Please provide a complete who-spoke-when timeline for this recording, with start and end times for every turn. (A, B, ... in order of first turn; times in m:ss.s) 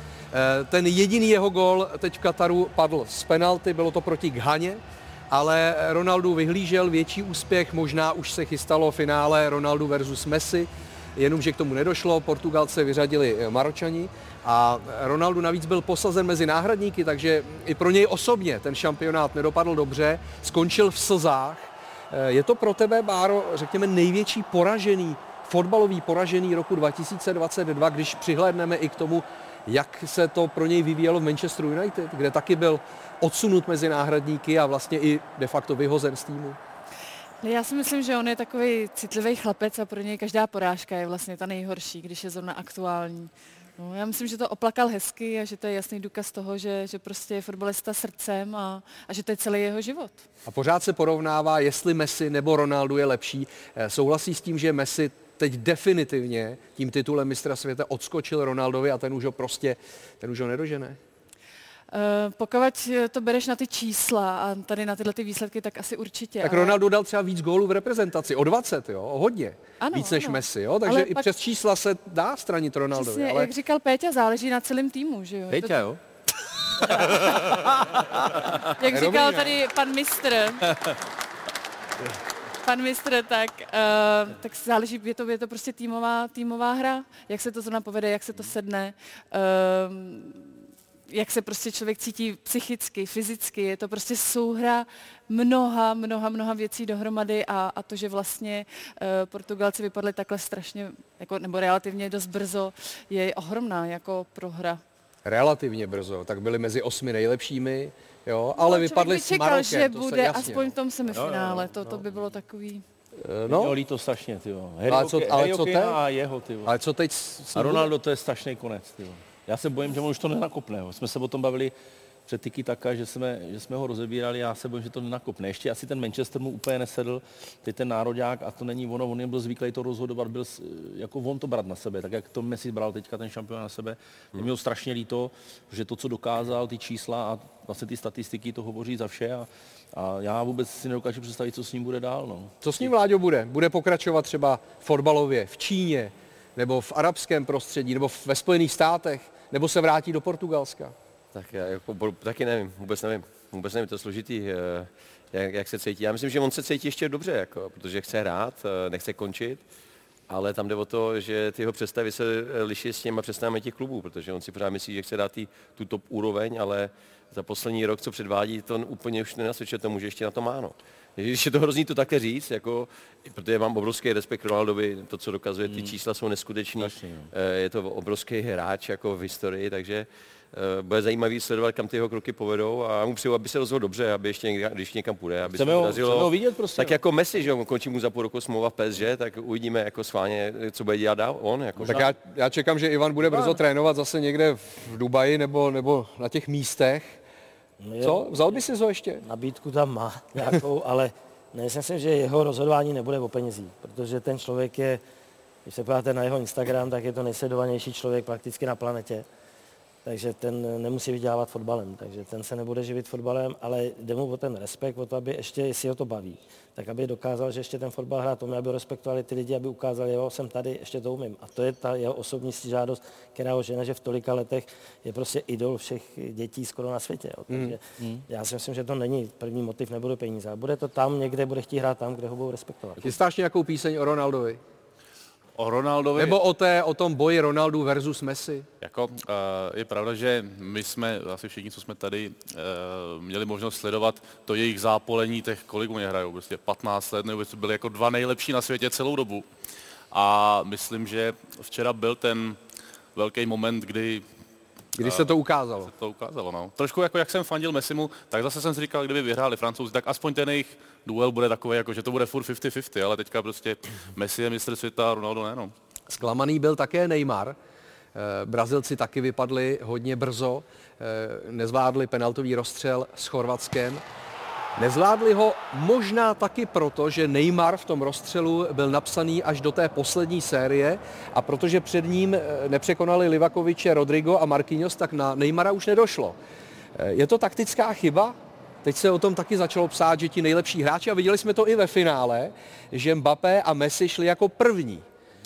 0:00.3-0:36.6 A
0:37.4-0:50.2 B
0:50.4-1:01.0 A
1:01.9-1:06.8 B
1:06.4-1:13.5 A
1:09.8-1:11.3 B
1:12.9-1:15.9 B
1:15.5-1:16.0 C
1:16.9-1:17.6 B
1:17.0-1:17.3 C
1:18.8-1:20.8 B
1:18.9-1:19.6 A
1:22.6-1:44.8 B
1:45.2-1:50.7 A
1:48.6-1:52.8 B
1:51.1-1:52.0 C
1:53.2-1:53.7 A
1:53.5-1:56.7 C
1:54.9-1:56.0 A
1:56.6-1:57.9 A
1:57.5-2:01.7 C
2:02.2-2:22.9 C
2:22.6-2:30.9 A
2:31.3-2:39.6 D
2:40.3-3:12.1 D
2:55.7-2:55.9 C
2:56.8-2:57.3 C
3:05.5-3:07.0 C
3:11.8-3:17.2 A
3:17.8-3:18.5 E
3:18.0-3:19.2 A
3:19.2-3:25.0 E
3:25.6-3:29.2 E
3:30.0-3:53.0 E
3:47.5-3:47.8 A
3:53.0-3:54.6 A
3:55.6-3:56.4 F
3:56.2-3:58.6 A
3:58.8-4:09.5 F
4:10.1-4:12.6 F
4:13.1-4:14.2 F
4:15.0-4:15.9 A
4:15.0-4:25.7 F
4:26.1-4:27.6 A
4:28.1-4:34.0 A
4:34.8-4:46.4 A
4:47.0-4:55.0 A